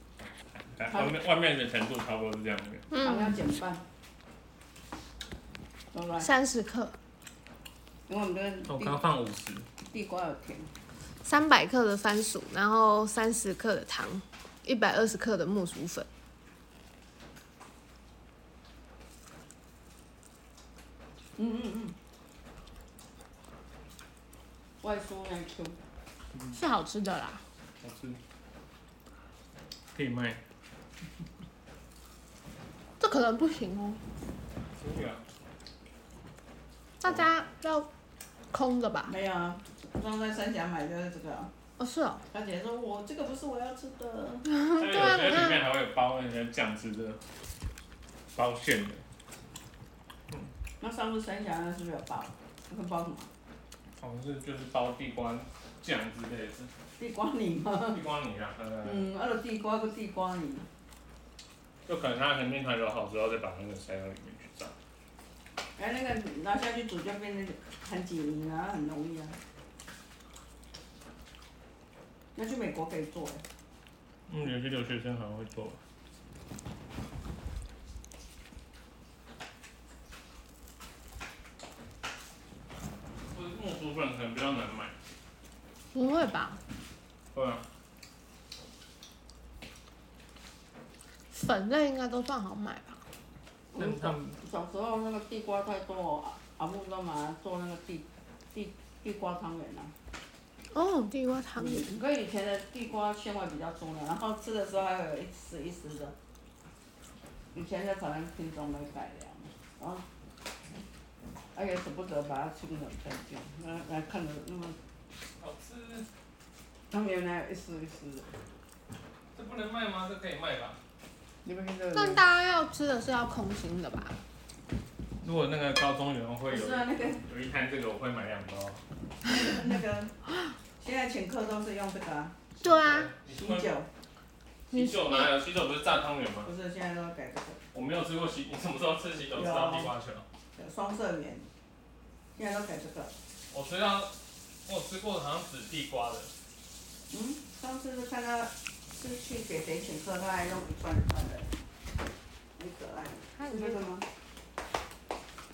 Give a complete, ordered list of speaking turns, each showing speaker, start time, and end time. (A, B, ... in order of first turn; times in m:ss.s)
0:00.5-0:02.9 A
0:00.9-0:01.2 B
0:02.9-0:03.4 C
0:02.9-0:03.8 B
0:05.9-0:06.3 B
0:06.2-0:07.0 C
0:08.1-0:09.0 B
0:08.6-0:09.7 A
0:09.8-0:10.7 B
0:11.2-0:16.1 C
0:21.4-0:21.9 B
0:24.8-0:25.8 B
0:26.5-0:27.4 C
0:27.8-0:28.2 A
0:29.9-0:30.4 A
0:33.0-0:34.0 C
0:34.7-0:35.2 A
0:37.0-0:37.9 C
0:38.5-0:39.1 C
0:39.0-0:41.5 B
0:41.8-0:42.2 C
0:42.3-0:44.5 B
0:44.5-0:45.6 C
0:44.7-0:47.2 A
0:48.3-0:49.0 A
0:50.8-0:53.3 B
0:54.0-0:56.7 A
0:57.0-0:58.0 B
0:57.9-0:59.0 A
0:58.8-1:00.7 B
1:01.8-1:04.7 A
1:05.8-1:09.4 B
1:12.3-1:13.4 B
1:14.3-1:15.8 A
1:23.3-1:25.0 A
1:25.9-1:26.6 C
1:27.3-1:27.7 A
1:31.3-1:33.0 C
1:33.7-1:39.9 B
1:33.8-1:34.4 A
1:40.7-1:41.8 C
1:41.6-1:46.1 B
1:47.5-1:50.0 B
1:51.5-1:54.8 B
1:55.4-1:56.1 A
1:56.9-1:58.3 B
1:59.3-2:00.8 A
2:01.4-2:02.3 B
2:01.9-2:04.2 C
2:05.2-2:08.8 A
2:06.4-2:07.2 B
2:09.2-2:10.2 B
2:10.8-2:12.4 B
2:12.6-2:13.1 C
2:12.6-2:13.7 A
2:13.2-2:13.9 B
2:14.7-2:16.5 A
2:14.7-2:15.3 C
2:16.4-2:17.6 B
2:17.7-2:20.2 A
2:19.3-2:19.9 B
2:20.6-2:21.5 B
2:22.3-2:23.1 B
2:23.5-2:26.3 A
2:27.1-2:31.5 B
2:32.6-2:34.1 B
2:33.4-2:33.8 C